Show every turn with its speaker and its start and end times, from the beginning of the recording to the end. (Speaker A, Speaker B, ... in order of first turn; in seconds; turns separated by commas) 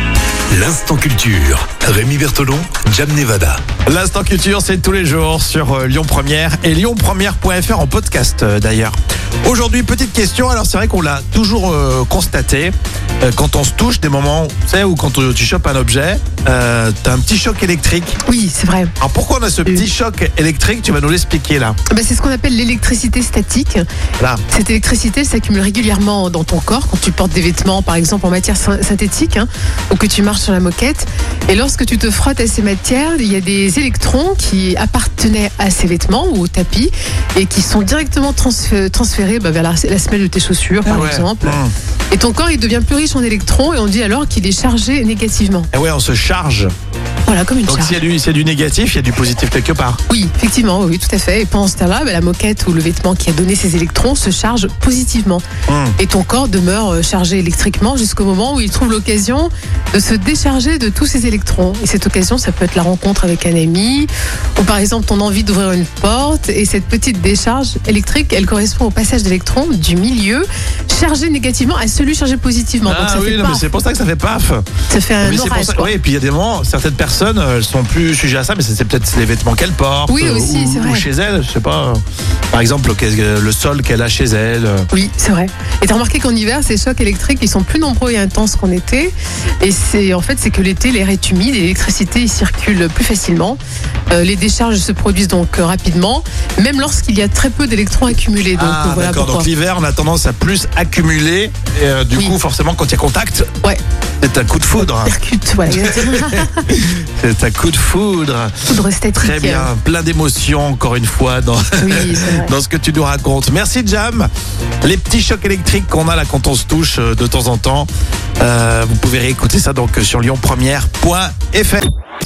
Speaker A: 0.5-3.6, Speaker B: 3.9-18.2, Speaker C: 18.2-18.9, Speaker B: 19.0-21.8, Speaker C: 21.9-23.8, Speaker C: 24.5-45.7, Speaker B: 40.8-41.7, Speaker B: 45.7-46.7, Speaker C: 47.2-47.9, Speaker B: 47.7-50.0, Speaker C: 50.1-55.4, Speaker B: 55.7-56.0, Speaker C: 56.0-73.7, Speaker B: 72.8-74.6, Speaker C: 74.9-75.9, Speaker B: 75.2-84.9, Speaker C: 80.1-81.1, Speaker C: 84.9-93.6, Speaker C: 94.1-99.5, Speaker B: 98.6-103.5, Speaker B: 104.2-105.1, Speaker C: 104.8-106.7, Speaker B: 105.7-114.3, Speaker C: 108.7-109.7, Speaker C: 111.8-112.5, Speaker B: 114.8-117.9, Speaker B: 118.4-121.9